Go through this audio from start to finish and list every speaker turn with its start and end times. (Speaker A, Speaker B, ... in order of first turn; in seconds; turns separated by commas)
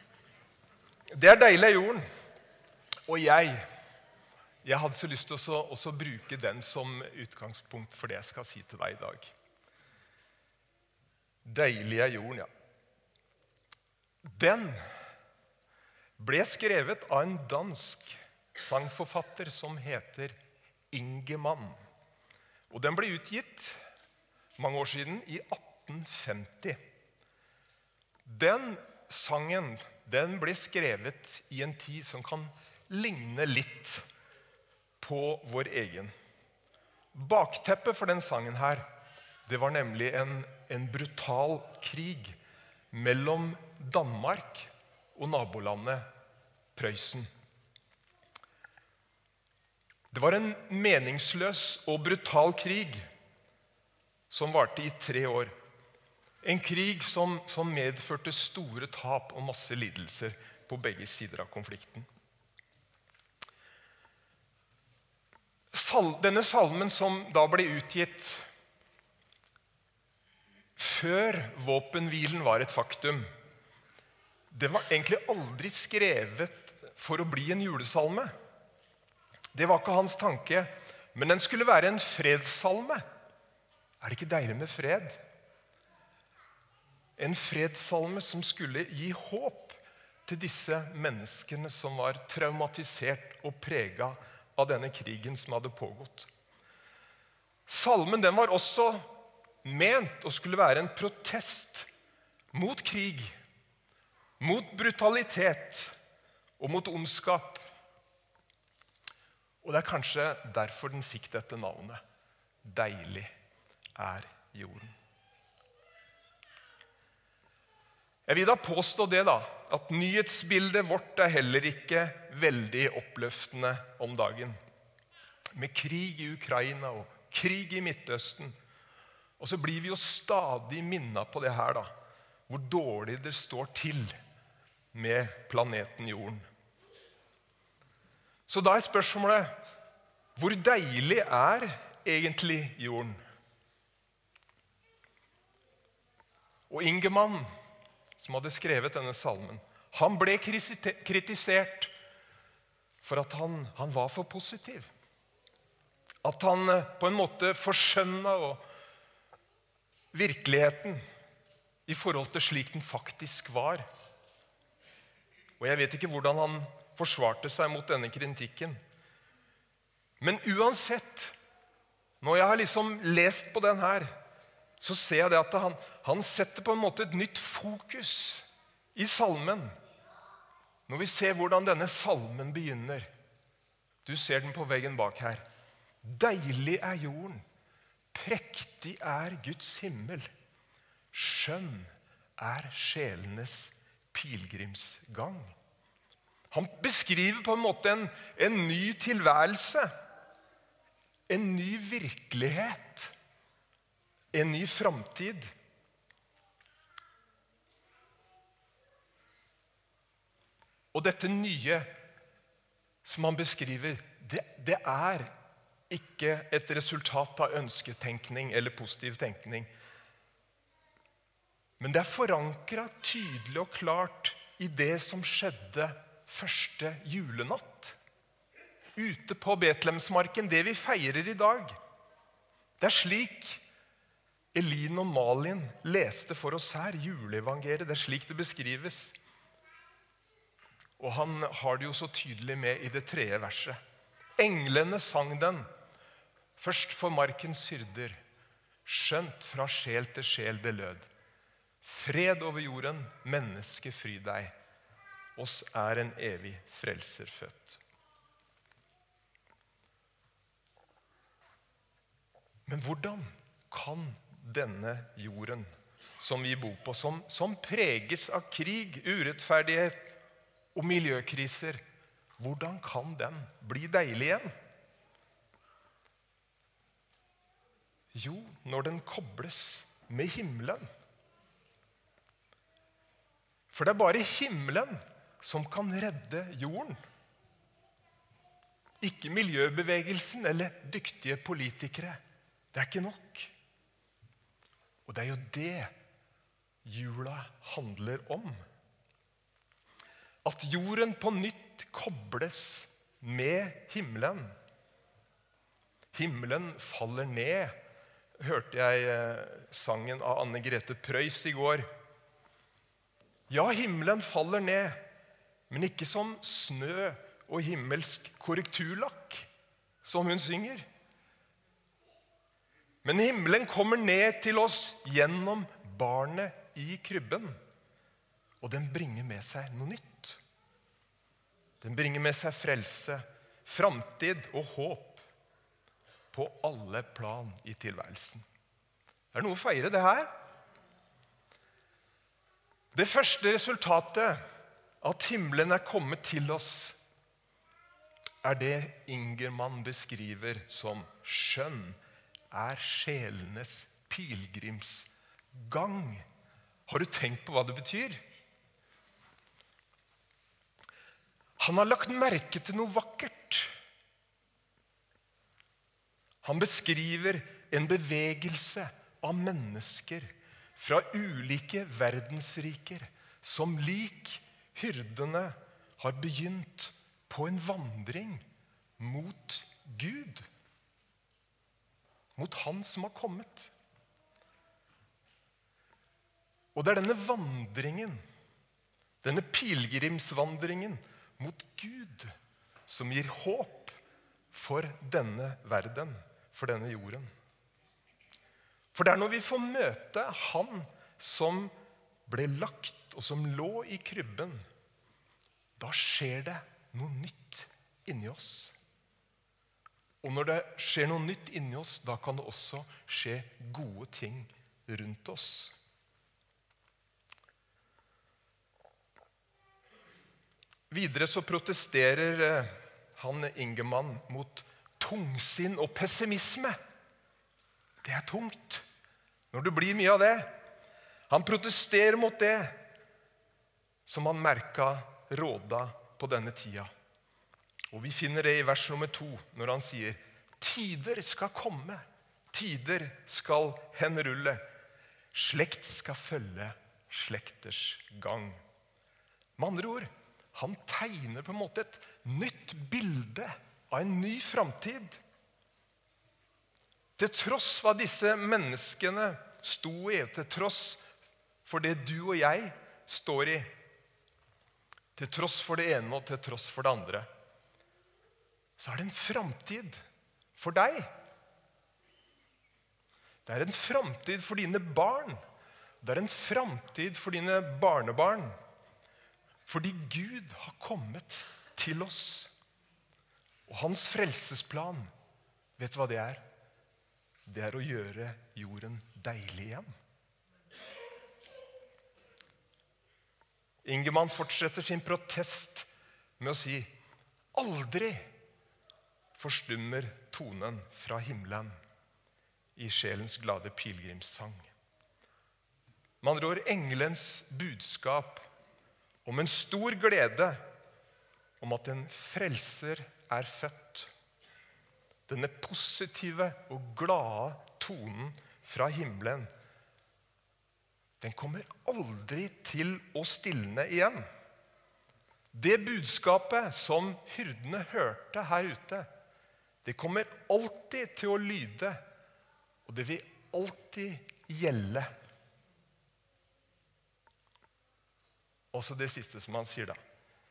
Speaker A: 1.1-2.0, Speaker A: 3.1-3.6, Speaker A: 4.6-9.3, Speaker A: 11.4-12.5, Speaker A: 14.2-14.8, Speaker A: 16.2-20.4, Speaker A: 20.9-21.8, Speaker A: 22.7-23.8, Speaker A: 24.6-26.8, Speaker A: 28.2-34.0, Speaker A: 35.0-36.1, Speaker A: 37.1-38.8, Speaker A: 39.5-42.4, Speaker A: 42.9-46.0, Speaker A: 46.7-47.3, Speaker A: 50.1-53.0, Speaker A: 54.3-55.5, Speaker A: 56.4-62.1, Speaker A: 65.7-68.4, Speaker A: 70.8-73.3, Speaker A: 74.5-78.3, Speaker A: 79.5-83.0, Speaker A: 84.0-85.2, Speaker A: 87.2-96.3, Speaker A: 97.7-99.1, Speaker A: 99.6-101.9, Speaker A: 102.5-103.3, Speaker A: 104.4-106.0, Speaker A: 106.6-107.7, Speaker A: 109.6-112.0, Speaker A: 112.6-113.3, Speaker A: 114.0-114.9, Speaker A: 118.2-124.6, Speaker A: 125.5-128.5, Speaker A: 129.4-131.9, Speaker A: 132.5-134.2, Speaker A: 134.9-136.4, Speaker A: 138.5-139.5, Speaker A: 140.3-143.2, Speaker A: 146.7-147.4, Speaker A: 148.2-151.9, Speaker A: 153.0-154.9, Speaker A: 156.2-158.6, Speaker A: 160.1-161.0, Speaker A: 161.8-163.8, Speaker A: 165.6-168.8, Speaker A: 170.2-171.3, Speaker A: 172.2-174.1, Speaker A: 174.8-179.7, Speaker A: 180.9-183.1, Speaker A: 184.0-185.4, Speaker A: 186.0-187.4, Speaker A: 188.1-190.3, Speaker A: 191.1-195.5, Speaker A: 196.5-199.9, Speaker A: 201.3-203.1, Speaker A: 204.3-205.5, Speaker A: 210.9-211.9, Speaker A: 213.0-215.3, Speaker A: 215.9-219.7, Speaker A: 221.8-228.0, Speaker A: 228.9-231.7, Speaker A: 232.8-233.6, Speaker A: 234.5-239.2, Speaker A: 241.0-243.8, Speaker A: 244.4-245.7, Speaker A: 246.6-248.2, Speaker A: 248.8-251.1, Speaker A: 251.8-254.6, Speaker A: 255.3-257.8, Speaker A: 262.6-270.1, Speaker A: 270.7-271.8, Speaker A: 272.4-274.5, Speaker A: 278.1-280.9, Speaker A: 283.7-287.0, Speaker A: 289.0-292.2, Speaker A: 292.7-293.5, Speaker A: 295.1-295.9, Speaker A: 296.8-298.6, Speaker A: 300.4-304.5, Speaker A: 306.1-307.8, Speaker A: 308.4-311.9, Speaker A: 313.5-315.0, Speaker A: 315.7-319.5, Speaker A: 320.0-320.9, Speaker A: 323.0-327.6, Speaker A: 328.6-330.4, Speaker A: 331.8-335.2, Speaker A: 336.3-338.4, Speaker A: 339.3-340.3, Speaker A: 342.9-344.4, Speaker A: 345.0-347.0, Speaker A: 348.4-352.0, Speaker A: 352.5-356.2, Speaker A: 356.9-358.2, Speaker A: 361.6-363.7, Speaker A: 366.4-378.4, Speaker A: 379.0-380.5, Speaker A: 382.4-383.7, Speaker A: 386.7-388.2, Speaker A: 389.2-392.3, Speaker A: 392.9-394.0, Speaker A: 394.5-397.3, Speaker A: 398.9-401.7, Speaker A: 402.2-404.6, Speaker A: 405.8-408.8, Speaker A: 410.2-415.8, Speaker A: 420.9-426.8, Speaker A: 428.0-428.8, Speaker A: 429.5-430.5, Speaker A: 431.3-432.8, Speaker A: 434.1-436.9, Speaker A: 437.9-444.6, Speaker A: 445.3-448.6, Speaker A: 449.6-455.2, Speaker A: 457.2-461.0, Speaker A: 461.6-463.7, Speaker A: 465.1-467.3, Speaker A: 468.8-470.0, Speaker A: 470.6-471.1, Speaker A: 473.4-475.4, Speaker A: 476.0-478.5, Speaker A: 479.7-482.5, Speaker A: 483.7-485.1, Speaker A: 485.8-486.4, Speaker A: 487.4-489.9, Speaker A: 493.8-496.9, Speaker A: 497.5-498.3, Speaker A: 499.4-501.7, Speaker A: 502.8-504.7, Speaker A: 506.2-508.4, Speaker A: 509.2-510.6, Speaker A: 511.6-514.1, Speaker A: 515.3-519.5, Speaker A: 521.2-524.2, Speaker A: 525.5-529.1, Speaker A: 529.8-532.0, Speaker A: 532.9-535.1, Speaker A: 538.7-540.0